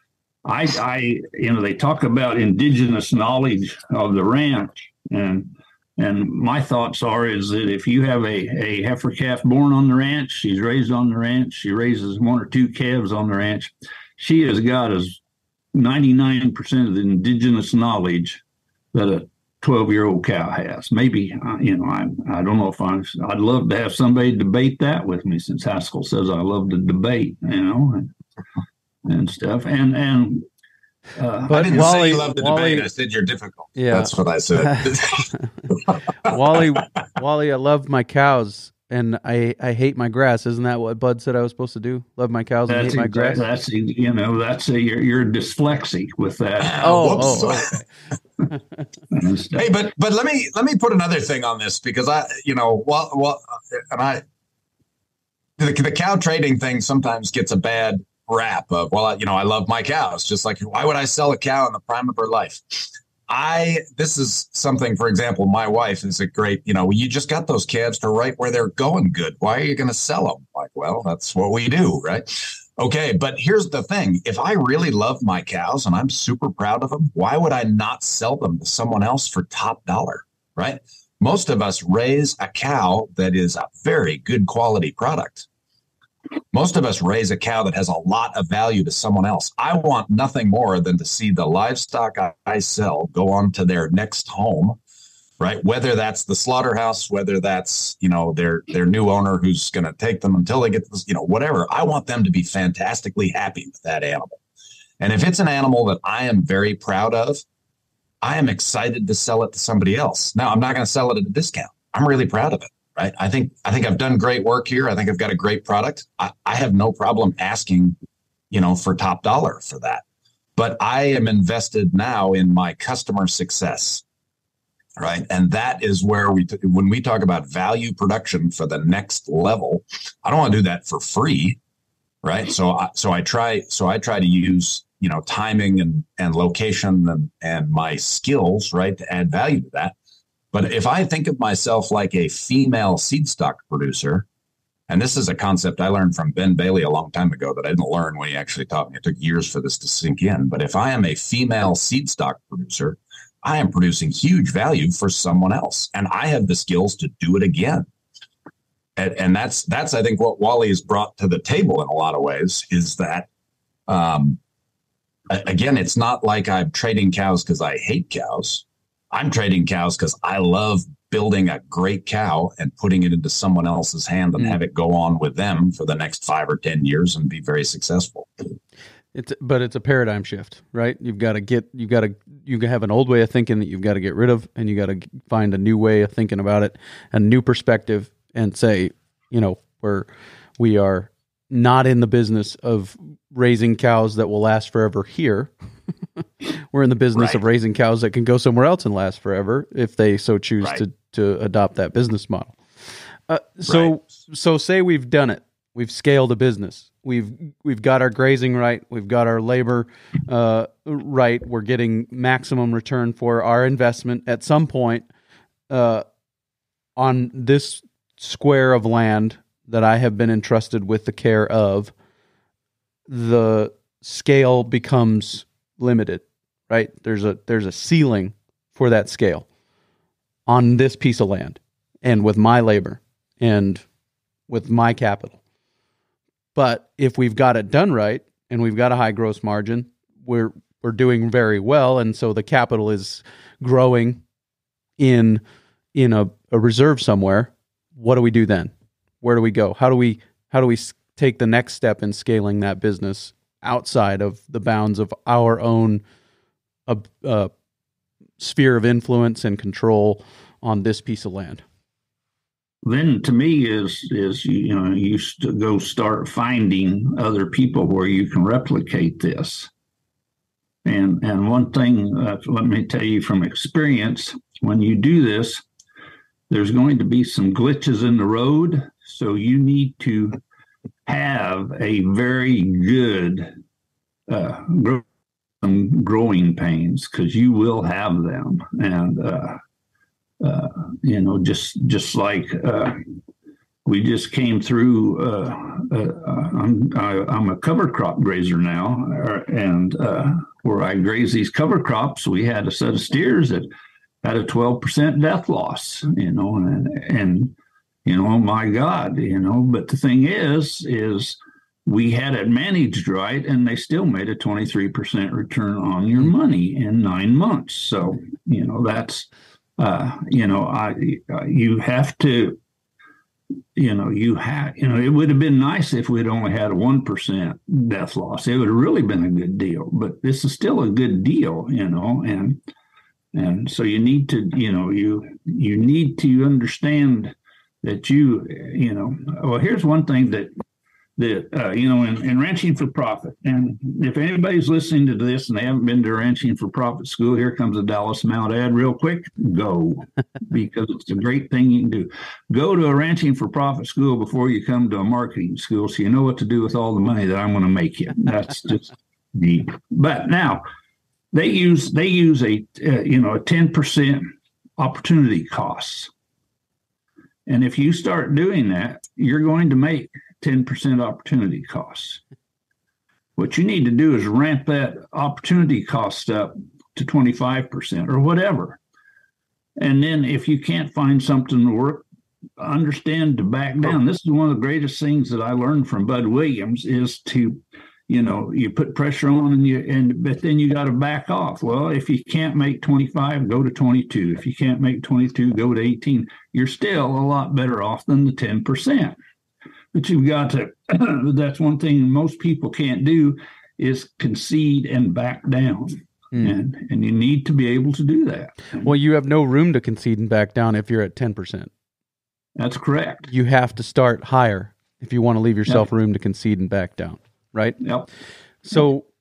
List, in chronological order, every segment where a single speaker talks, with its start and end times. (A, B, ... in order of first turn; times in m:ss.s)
0:00.4-0:15.2 A
0:15.7-0:18.4 A
0:18.9-0:28.1 A
0:29.1-0:30.4 A
0:31.2-0:31.8 A
0:31.5-0:32.9 B
0:31.5-0:35.8 C
0:33.8-0:34.1 B
0:34.6-0:35.5 B
0:36.2-0:43.4 B
0:42.7-0:47.5 A
0:46.6-0:47.8 C
0:46.8-0:47.8 B
0:49.1-0:49.7 A
0:49.6-0:54.2 C
0:55.6-1:25.5 C
1:26.5-1:34.8 C
1:35.4-1:44.4 C
1:45.0-1:47.4 C
1:48.2-1:58.0 C
1:58.5-2:00.0 C
2:00.6-2:04.0 C
2:05.0-2:11.6 C
2:12.2-2:20.0 C
2:20.5-2:24.3 C
2:24.9-2:37.9 C
2:39.0-2:43.3 C
2:43.9-2:44.4 C
2:45.3-2:58.3 C
2:59.1-3:15.5 B
3:16.7-3:22.6 B
3:17.2-3:17.4 C
3:23.3-3:35.1 B
3:23.7-3:23.9 C
3:35.7-3:36.0 B
3:37.0-3:41.9 B
3:43.1-3:49.5 B
3:50.5-3:53.8 B
3:54.5-3:55.4 B
3:56.6-4:04.2 B
4:05.0-4:05.4 B
4:06.0-4:16.0 B
4:16.9-4:17.5 B
4:18.4-4:21.6 B
4:22.8-4:29.7 A
4:30.8-4:35.6 A
4:36.5-4:40.4 A
4:41.1-4:43.5 A
4:44.3-4:45.0 A
4:45.6-4:49.6 A
4:50.4-4:53.0 A
4:53.8-5:03.7 A
5:04.2-5:07.5 A
5:08.0-5:22.6 A
5:23.8-5:32.6 A
5:33.3-5:40.5 A
5:41.2-6:00.6 A
6:01.3-6:06.1 A
6:07.5-6:12.2 A
6:13.4-6:18.8 A
6:19.8-6:22.0 A
6:22.6-6:39.2 A
6:39.9-6:48.8 A
6:48.8-6:51.7 B
6:52.6-6:53.3 A
6:53.3-6:57.8 B
6:57.8-6:58.1 A
6:58.6-6:59.1 B